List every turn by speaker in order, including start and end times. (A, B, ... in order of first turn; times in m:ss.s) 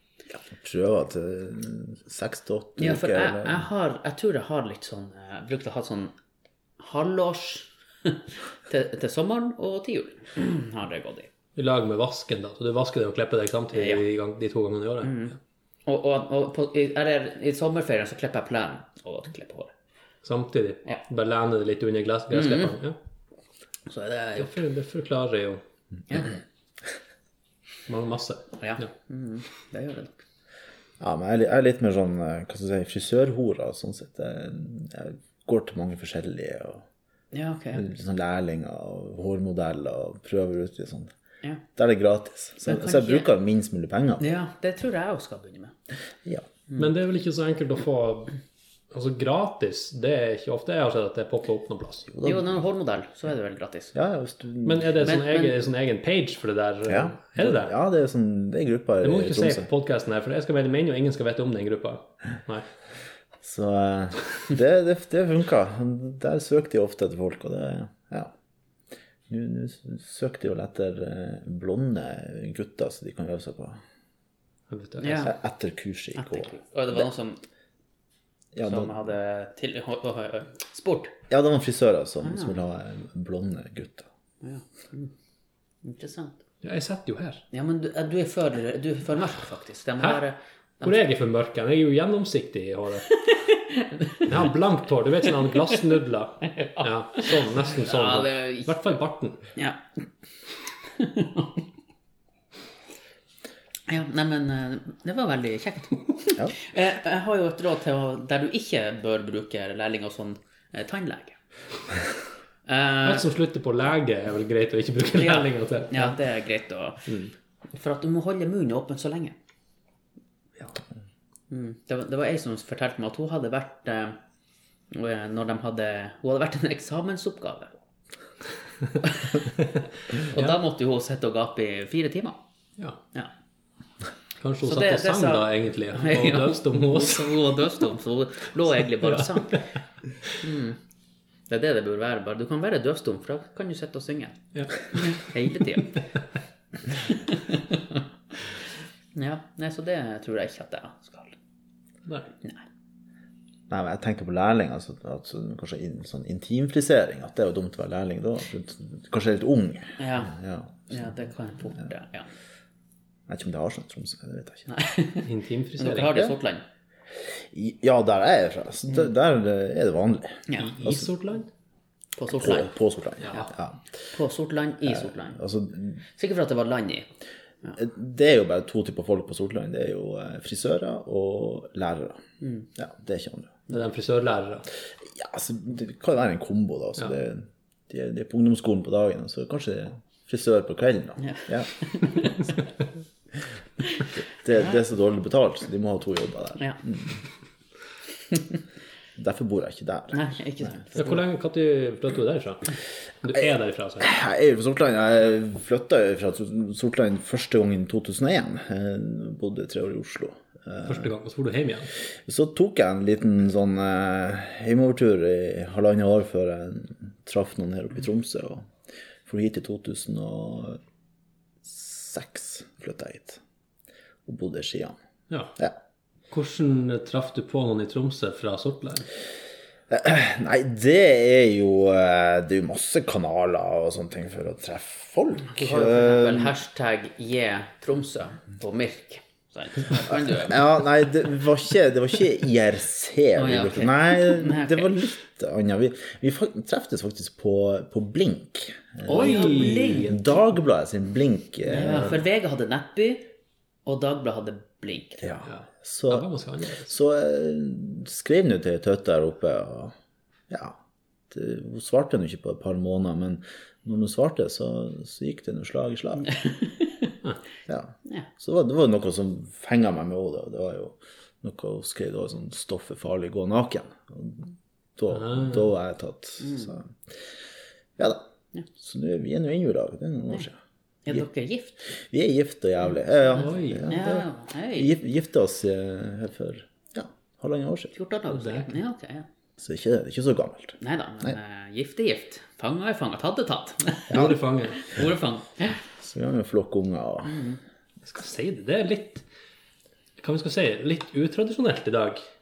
0:00.4-0:03.6 A
0:02.8-0:06.1 B
0:06.8-0:11.3 B
0:11.6-0:15.3 C
0:13.7-0:14.0 B
0:15.0-0:19.7 B
0:20.2-0:23.0 C
0:22.3-0:22.7 B
0:23.9-0:24.5 B
0:24.4-0:25.6 C
0:26.1-0:26.3 B
0:27.9-0:28.9 C
0:28.6-0:30.2 B
0:31.0-0:36.8 A
0:37.3-0:37.9 B
0:37.7-0:41.1 A
0:41.8-0:44.2 A
0:42.6-0:43.3 B
0:44.2-0:45.8 B
0:46.8-0:48.3 C
0:48.9-0:52.1 C
0:52.1-0:52.5 A
0:52.2-0:53.9 B
0:53.9-0:54.9 A
0:54.6-0:57.7 C
0:55.0-0:55.6 B
0:56.9-0:59.7 A
0:59.0-1:02.6 C
1:03.4-1:08.3 A
1:09.3-1:13.8 A
1:14.7-1:15.3 C
1:15.0-1:15.3 B
1:15.2-1:16.5 A
1:16.2-1:17.4 B
1:18.5-1:18.9 A
1:18.6-1:21.1 B
1:21.3-1:24.1 A
1:22.2-1:22.5 B
1:24.4-1:25.1 B
1:25.8-1:26.4 B
1:26.6-1:27.4 C
1:27.5-1:31.0 B
1:30.8-1:33.1 C
1:33.1-1:34.3 B
1:34.2-1:39.4 C
1:36.4-1:38.7 B
1:39.5-1:39.8 B
1:41.0-1:41.6 B
1:43.9-1:51.4 B
1:52.6-1:53.3 B
1:53.0-1:56.2 C
1:55.1-1:57.1 B
1:57.7-1:59.4 B
2:01.5-2:04.2 B
2:04.9-2:07.7 B
2:09.0-2:09.5 B
2:10.2-2:12.4 B
2:10.3-2:10.6 C
2:14.4-2:17.4 C
2:14.6-2:19.6 B
2:20.3-2:20.8 B
2:21.5-2:26.0 B
2:24.5-2:24.9 C
2:26.9-2:28.0 B
2:29.1-2:31.3 B
2:33.7-2:41.0 A
2:40.0-2:40.3 B
2:40.9-2:42.3 B
2:43.3-2:44.7 A
2:44.7-2:46.6 B
2:45.2-2:46.3 C
2:47.3-2:51.1 A
2:50.5-2:51.5 C
2:52.2-2:52.7 B
2:52.4-2:53.8 A
2:54.1-2:55.4 B
2:54.8-2:56.0 A
2:56.2-2:57.1 B
2:57.8-3:02.2 A
3:02.4-3:02.7 B
3:02.8-3:03.7 A
3:03.7-3:04.7 C
3:05.0-3:11.7 A
3:11.2-3:12.5 B
3:14.4-3:17.2 A
3:19.2-3:20.2 A
3:20.1-3:21.2 B
3:20.9-3:22.7 C
3:23.2-3:24.2 C
3:24.0-3:31.1 A
3:30.8-3:31.9 C
3:32.2-3:38.7 A
3:39.2-3:40.8 A
3:41.6-3:43.4 A
3:44.2-3:45.0 A
3:45.3-3:45.6 C
3:46.3-3:49.1 C
3:49.9-3:56.5 A
3:55.6-4:00.7 B
4:00.2-4:12.2 A
4:03.4-4:04.9 B
4:09.0-4:10.2 B
4:09.1-4:10.2 C
4:11.6-4:13.3 B
4:13.8-4:15.3 B
4:15.2-4:16.3 A
4:15.5-4:16.9 C
4:16.8-4:19.9 A
4:20.5-4:20.8 A
4:21.3-4:26.3 A
4:26.3-4:27.1 B
4:27.7-4:37.2 A
4:35.2-4:35.6 C
4:36.4-4:36.7 B
4:38.0-4:38.2 A
4:38.8-4:40.6 A
4:41.0-4:41.8 B
4:41.8-4:47.9 A
4:43.3-4:43.9 C
4:43.8-4:44.9 B
4:47.9-4:49.3 B
4:48.3-4:48.7 C
4:49.6-4:51.4 A
4:50.8-4:55.8 B
4:54.1-4:54.8 C
4:54.1-4:54.4 A
4:56.0-4:57.4 A
4:57.2-4:57.6 B
4:58.0-4:59.2 C
5:00.2-5:02.2 C